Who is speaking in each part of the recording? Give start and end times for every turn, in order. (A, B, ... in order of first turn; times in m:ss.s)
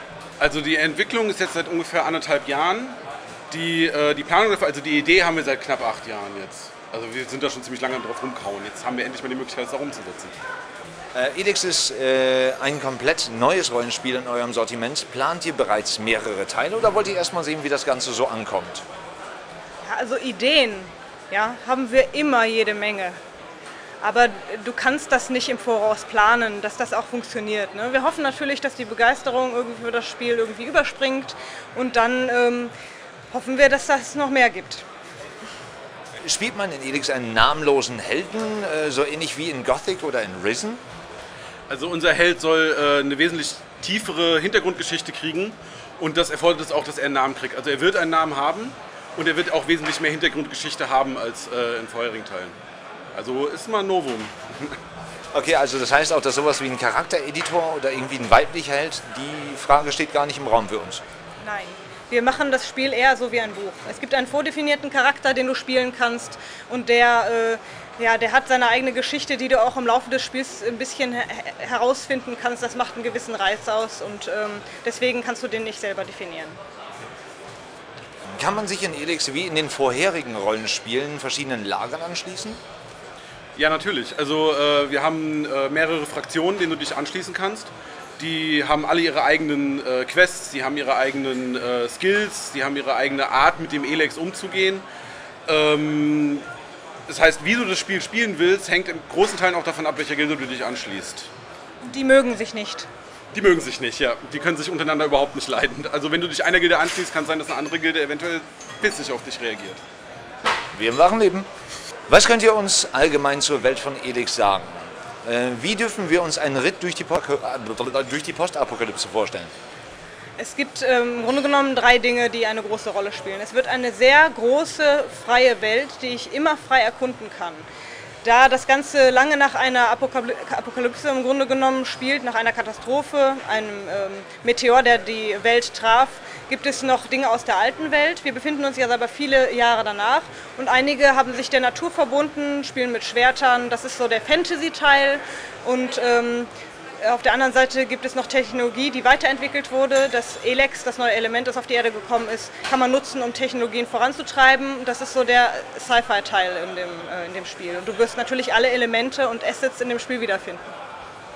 0:00.4-0:03.0 A
0:03.5-0:10.3 A
0:11.1-0:18.8 B
0:19.8-0:23.2 C
0:24.0-0:32.7 C
0:33.3-0:34.8 C
0:36.2-0:40.8 B
0:41.7-0:52.6 A
0:53.1-0:54.8 A
0:55.3-1:01.0 B
1:01.4-1:16.6 C
1:18.3-1:22.6 B
1:23.6-1:34.8 A
1:35.5-1:36.4 A
1:37.1-1:41.3 A
1:41.8-1:42.9 C
1:43.3-1:49.8 A
1:50.7-1:51.5 B
1:52.1-1:59.5 B
2:00.4-2:07.7 C
2:08.2-2:40.7 C